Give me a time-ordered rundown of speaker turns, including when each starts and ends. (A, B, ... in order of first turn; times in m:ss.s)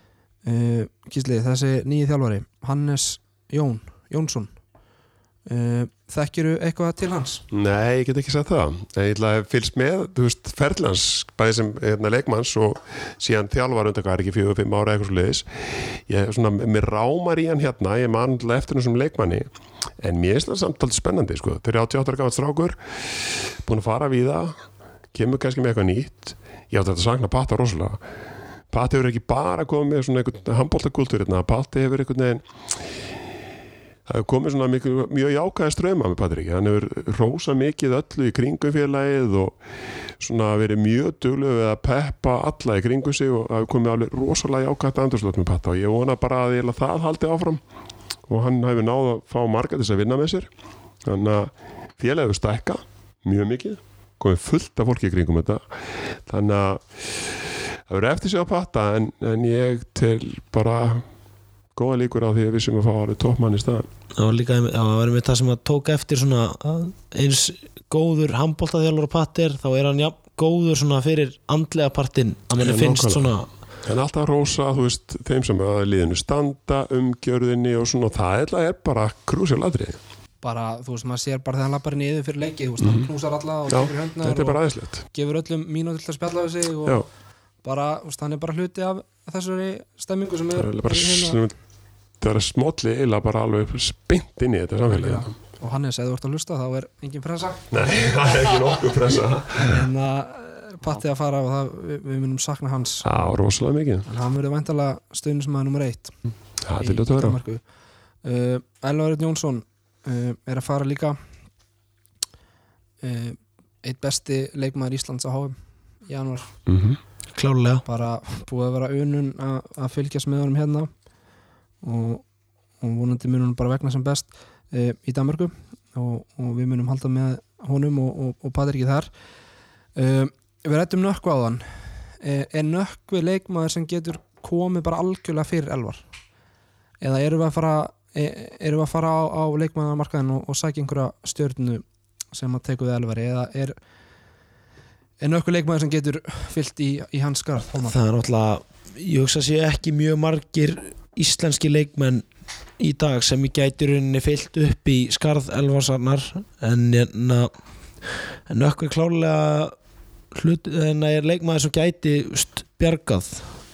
0:00.4-0:04.5 A
0:05.5-0:07.4 A
0:07.5-0:19.5 B
0:20.0-0:22.8 B
0:23.6-0:24.6 B
0:25.1-0:28.0 B
0:28.7-0:32.4 B
0:34.1-0:39.6 B
0:40.2-0:47.6 B
0:48.3-0:50.5 B
0:51.0-0:55.6 B
0:56.2-0:57.2 B
0:57.9-1:01.0 B
1:01.7-1:03.9 B
1:04.1-1:13.5 C
1:12.6-1:13.3 B
1:13.8-1:20.0 B
1:20.4-1:27.0 A
1:22.8-1:23.1 B
1:23.7-1:25.0 B
1:27.6-1:31.4 A
1:30.5-1:31.6 B
1:32.2-1:35.3 B
1:34.9-1:38.4 A
1:37.7-1:39.8 B
1:39.6-1:43.0 A
1:43.0-1:44.1 B
1:44.0-1:46.1 A
1:46.6-1:47.4 B
1:46.8-1:47.6 A
1:48.2-1:51.2 A
1:53.0-1:56.5 A
1:56.7-1:57.0 B
1:57.3-1:57.8 C
1:57.8-2:00.9 A
2:01.8-2:02.2 A
2:02.8-2:09.1 A
2:10.0-2:16.0 A
2:17.0-2:23.7 A
2:25.2-2:28.0 A
2:27.8-2:32.2 C
2:32.8-2:37.5 C
2:38.5-2:39.8 C
2:40.3-2:43.6 C